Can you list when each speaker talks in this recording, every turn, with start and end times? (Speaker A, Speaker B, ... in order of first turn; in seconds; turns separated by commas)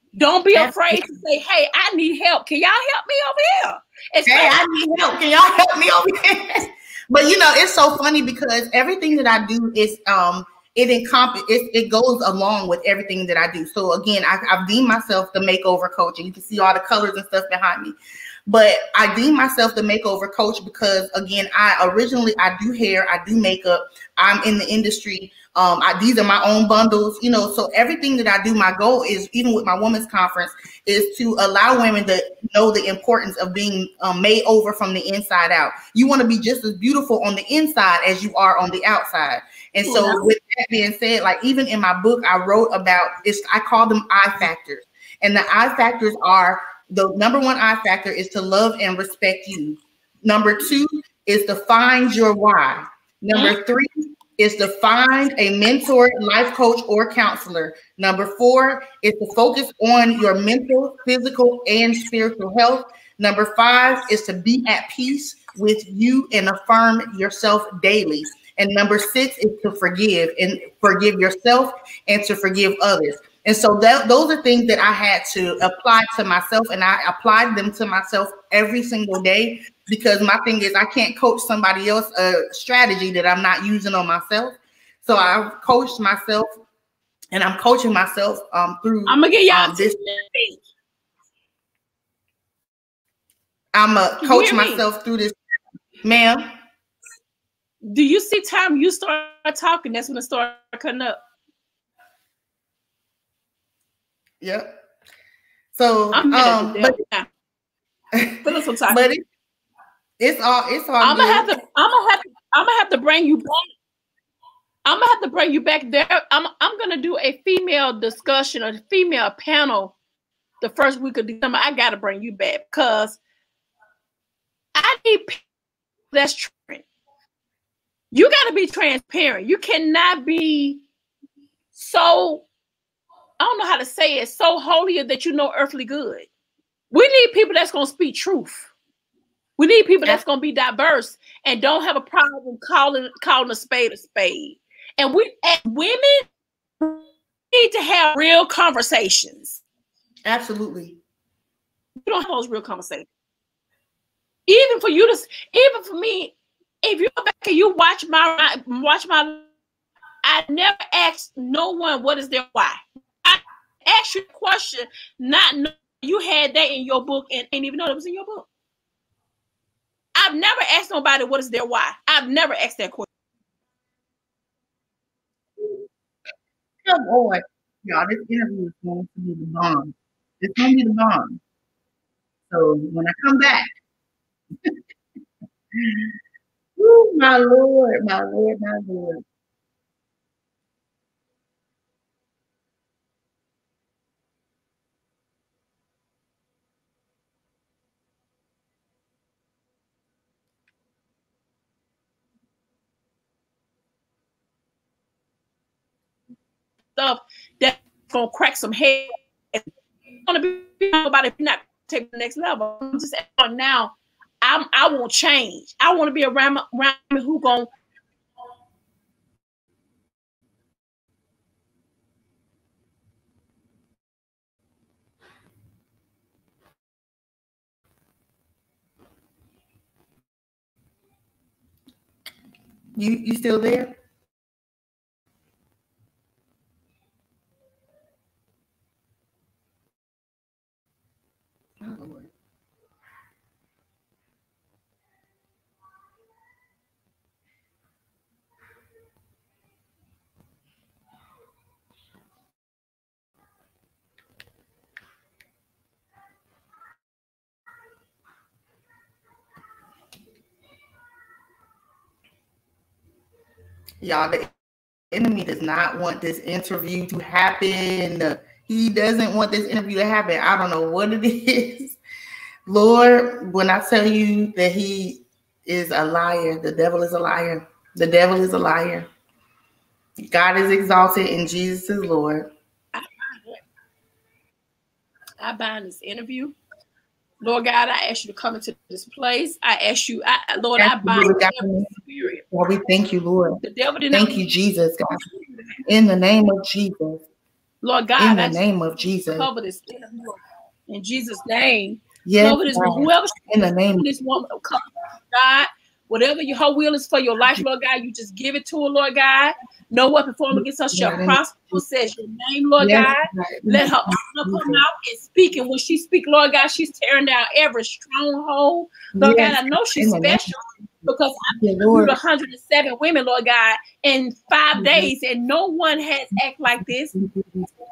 Speaker A: 0.2-4.6, Speaker B: 0.5-1.1, Speaker B: 4.3-18.0, Speaker B: 18.5-86.6, Speaker A: 39.8-40.3, Speaker B: 87.3-90.0, Speaker A: 89.1-90.6, Speaker B: 93.7-95.3, Speaker A: 94.2-94.8, Speaker B: 96.0-96.5, Speaker A: 97.8-101.2, Speaker B: 104.4-104.8, Speaker B: 105.7-107.0, Speaker A: 106.1-107.3, Speaker B: 108.2-109.2, Speaker A: 108.4-109.0, Speaker B: 110.2-111.5, Speaker A: 111.0-113.7, Speaker A: 114.8-120.0, Speaker A: 120.6-123.2, Speaker A: 124.8-125.4, Speaker A: 126.1-126.8, Speaker A: 128.1-130.8, Speaker A: 131.8-132.5, Speaker A: 133.4-136.3, Speaker A: 136.9-138.7, Speaker A: 139.6-146.2, Speaker A: 146.8-149.6, Speaker B: 150.3-151.0, Speaker A: 152.0-153.1, Speaker A: 154.5-159.5, Speaker A: 160.2-168.5, Speaker A: 170.2-173.1, Speaker B: 175.6-175.8, Speaker B: 176.9-181.4, Speaker B: 182.5-183.7, Speaker B: 185.8-186.1, Speaker B: 186.8-189.2, Speaker A: 207.0-209.7, Speaker A: 210.2-217.7, Speaker B: 233.0-233.9, Speaker B: 241.8-242.3, Speaker B: 264.0-264.5, Speaker B: 265.1-272.0, Speaker B: 272.7-279.1, Speaker B: 280.3-282.5, Speaker A: 282.9-283.6, Speaker A: 285.4-286.6, Speaker A: 287.4-292.4, Speaker B: 290.8-291.9, Speaker B: 292.5-295.2, Speaker A: 293.6-294.4, Speaker A: 295.3-295.6, Speaker B: 295.9-297.2, Speaker A: 297.8-298.6, Speaker B: 298.2-299.5, Speaker A: 299.4-303.4, Speaker B: 302.2-304.1, Speaker A: 303.9-327.1, Speaker B: 310.5-311.8, Speaker B: 312.8-314.8, Speaker B: 319.1-322.2, Speaker B: 324.8-325.1, Speaker B: 327.1-327.7